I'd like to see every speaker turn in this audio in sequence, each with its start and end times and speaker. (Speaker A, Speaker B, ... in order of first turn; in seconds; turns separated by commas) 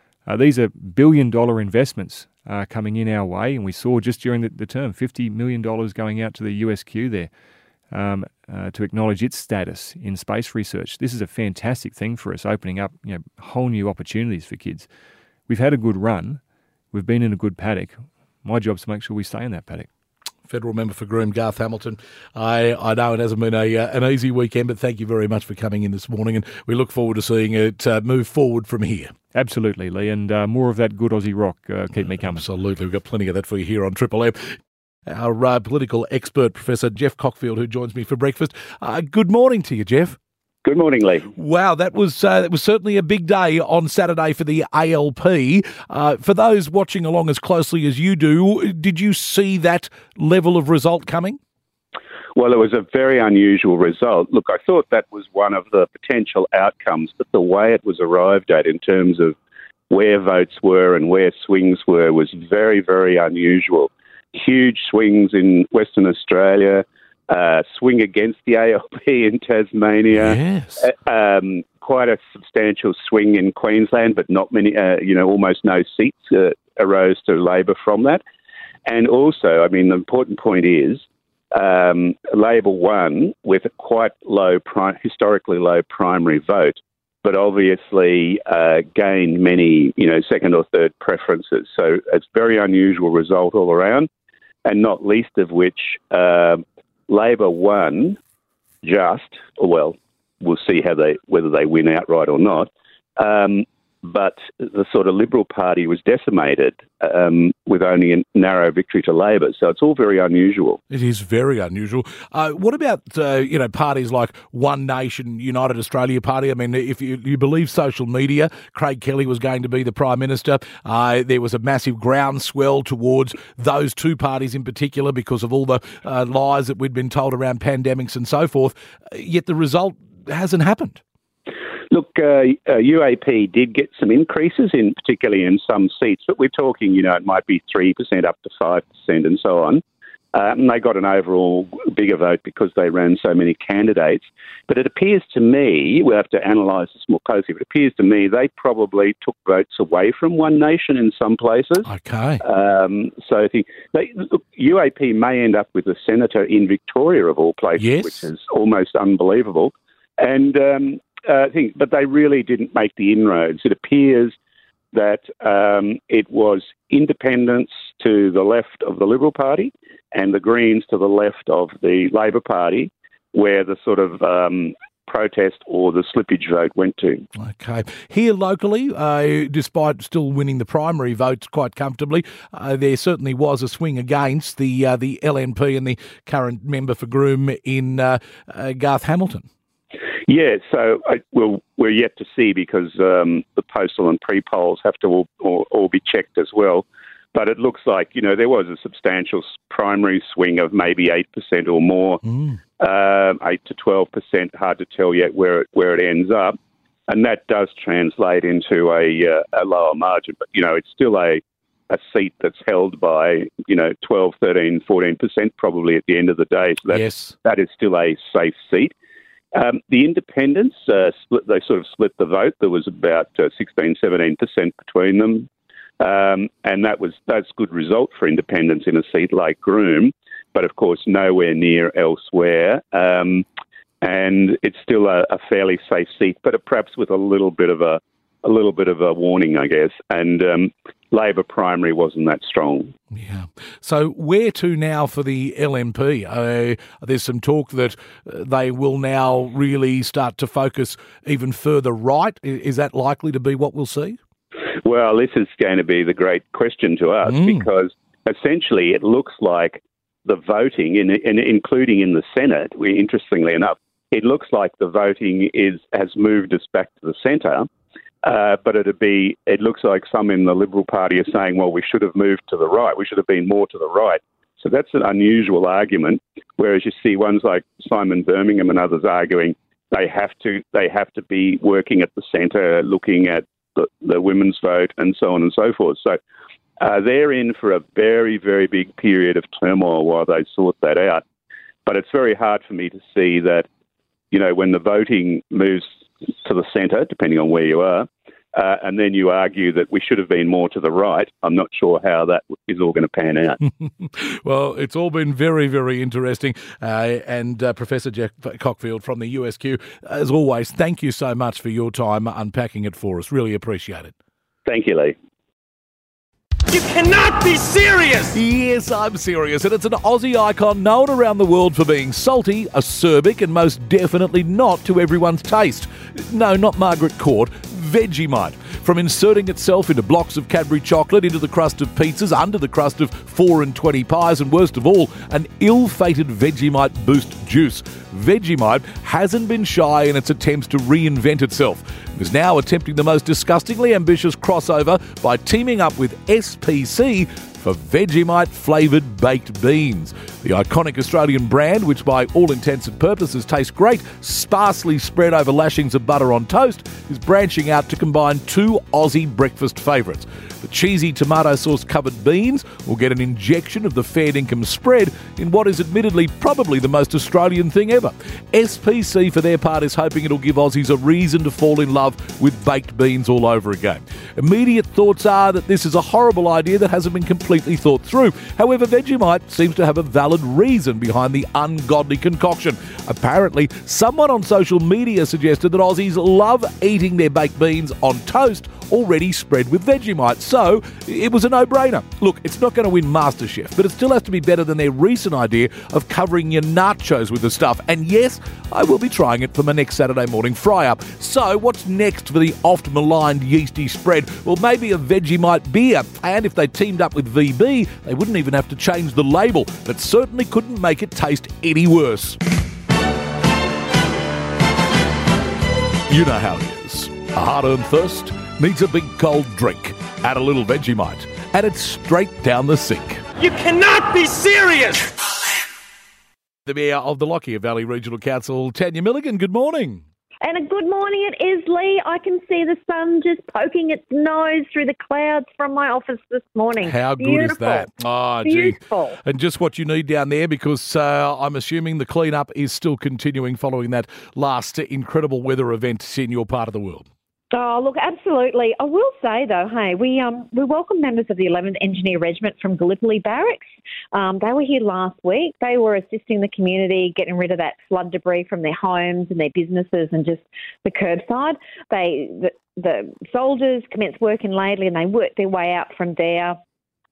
Speaker A: 0.2-7.3, Speaker A: 7.9-14.9, Speaker A: 15.5-16.4, Speaker A: 16.9-19.9, Speaker B: 20.5-29.1, Speaker A: 29.3-32.4, Speaker B: 31.9-40.2, Speaker C: 40.6-41.3, Speaker B: 41.3-51.4, Speaker C: 52.3-59.4, Speaker C: 59.9-78.2, Speaker B: 70.1-70.9, Speaker C: 78.8-94.1, Speaker C: 94.6-98.2, Speaker C: 98.8-110.8, Speaker B: 110.9-131.0, Speaker C: 131.9-151.9, Speaker B: 151.8-152.4, Speaker C: 152.4-164.3, Speaker B: 157.8-158.2, Speaker C: 164.9-177.2, Speaker B: 177.3-189.5, Speaker C: 190.2-202.2, Speaker B: 202.2-202.6, Speaker C: 202.8-206.6, Speaker C: 207.1-218.9, Speaker B: 216.9-217.3, Speaker C: 219.5-225.5, Speaker C: 226.0-233.4, Speaker C: 234.0-242.9, Speaker B: 243.1-254.2, Speaker C: 254.8-267.7, Speaker B: 257.2-257.6, Speaker C: 268.2-286.2, Speaker C: 286.8-291.2, Speaker C: 291.9-293.7, Speaker C: 294.3-295.9, Speaker C: 296.4-303.6, Speaker B: 303.6-314.1, Speaker C: 314.6-315.1, Speaker D: 316.7-318.4, Speaker B: 318.3-412.4, Speaker B: 416.1-423.2, Speaker D: 423.4-425.1, Speaker B: 426.6-430.0, Speaker E: 430.4-437.9, Speaker B: 436.8-447.1, Speaker E: 438.4-439.2, Speaker E: 447.5-466.6